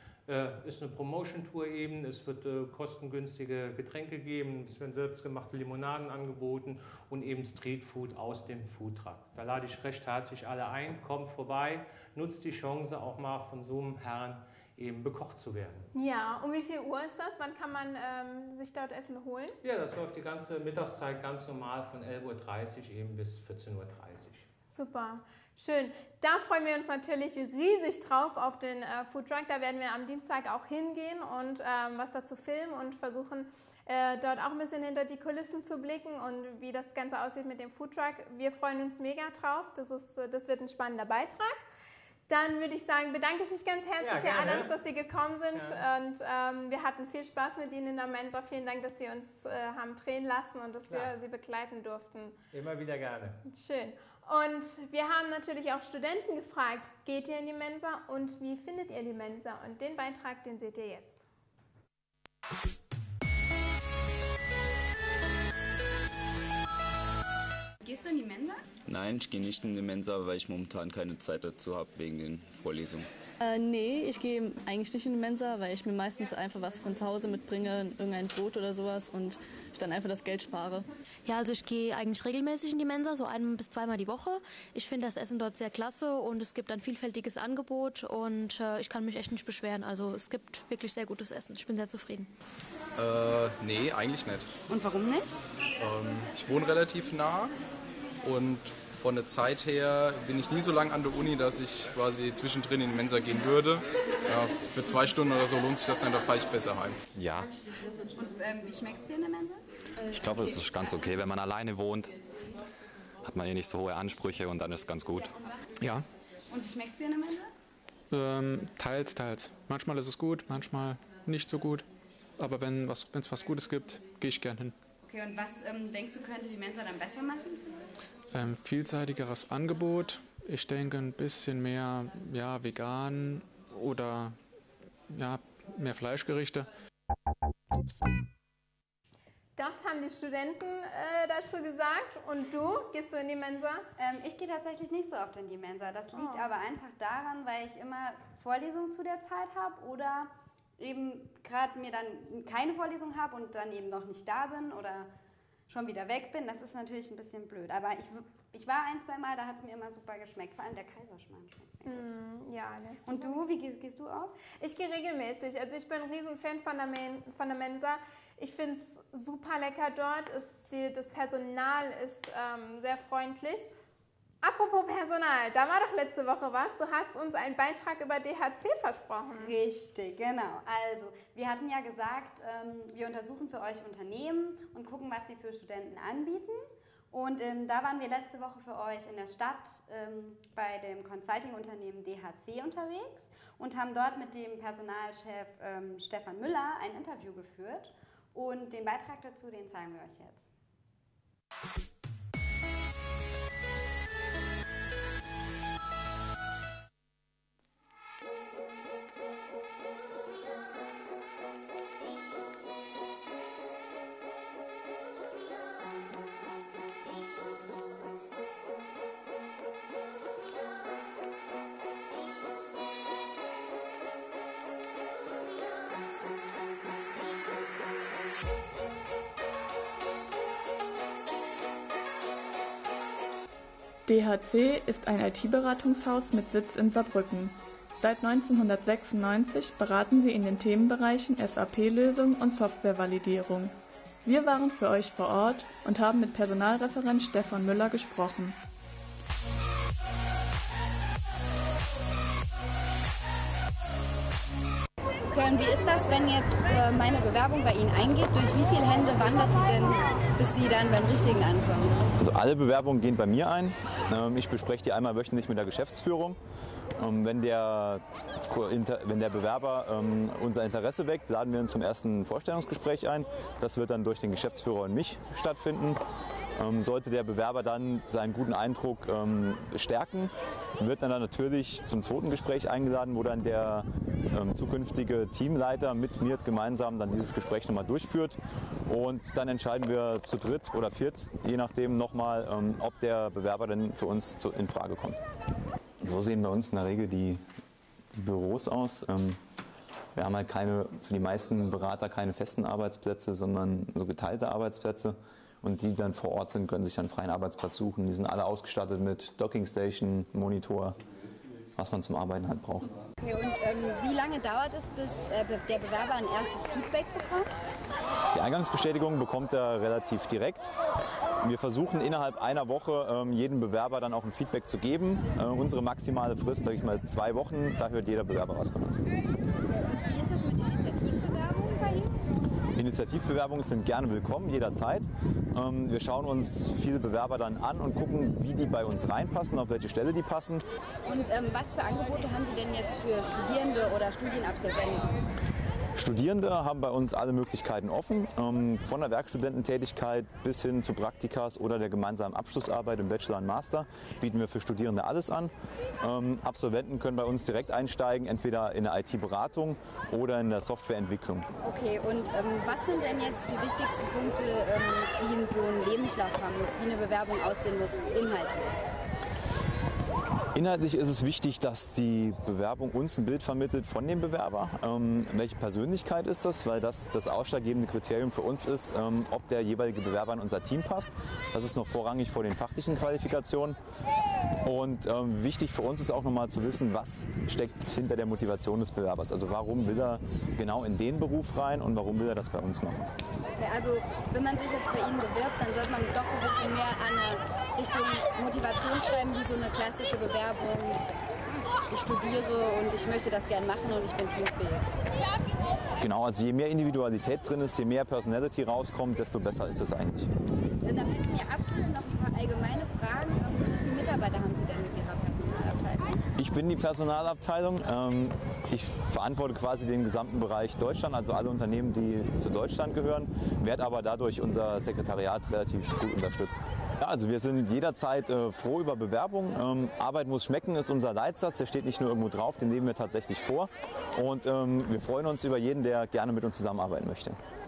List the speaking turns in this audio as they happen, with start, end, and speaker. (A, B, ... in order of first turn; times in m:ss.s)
0:00.3-0:15.9 A
0:15.9-0:19.6 B
0:19.6-0:24.5 A
0:24.7-0:41.7 B
0:42.3-0:52.4 B
0:44.0-0:44.8 A
0:45.5-0:45.8 A
0:52.5-0:53.4 A
0:53.5-1:01.2 B
1:07.8-1:08.6 C
1:08.9-1:13.1 D
1:13.4-1:20.8 E
1:21.2-1:32.3 F
1:33.0-1:34.5 G
1:34.7-1:35.3 C
1:35.8-1:37.5 G
1:38.2-1:47.0 G
1:47.2-1:47.5 H
1:48.0-1:49.6 C
1:50.1-1:52.1 H
1:53.2-1:56.0 H
1:56.5-1:57.5 C
1:58.1-2:01.9 I
2:02.4-2:04.8 I
2:05.0-2:07.9 C
2:08.3-2:14.4 I
2:15.1-2:16.7 I
2:19.6-2:23.9 B
2:24.0-2:35.1 C
2:26.1-2:26.5 B
2:35.7-2:42.0 C
2:41.8-2:43.4 B
2:43.1-2:44.4 C
2:44.6-2:53.7 B
2:54.4-2:59.5 B
2:59.4-3:20.5 C
3:54.1-4:08.6 J
4:15.3-4:22.1 C
4:22.2-4:26.4 K
4:27.0-4:36.0 K
4:36.6-4:55.2 K
4:56.0-4:57.4 K
4:58.1-4:59.4 K
5:00.1-5:11.0 K
5:11.8-5:12.9 K
5:13.2-5:17.5 C
5:18.3-5:20.7 K
5:21.4-5:29.0 K
5:29.7-5:32.1 C
5:32.8-5:40.6 K
5:41.0-5:45.1 C
5:45.9-6:01.5 K
6:01.6-6:08.8 C
6:10.5-6:23.8 K
6:24.6-6:33.1 K
6:33.6-6:41.0 C
6:41.9-6:44.9 C
6:46.0-6:50.3 K
6:50.8-6:56.2 C
6:56.4-7:17.4 K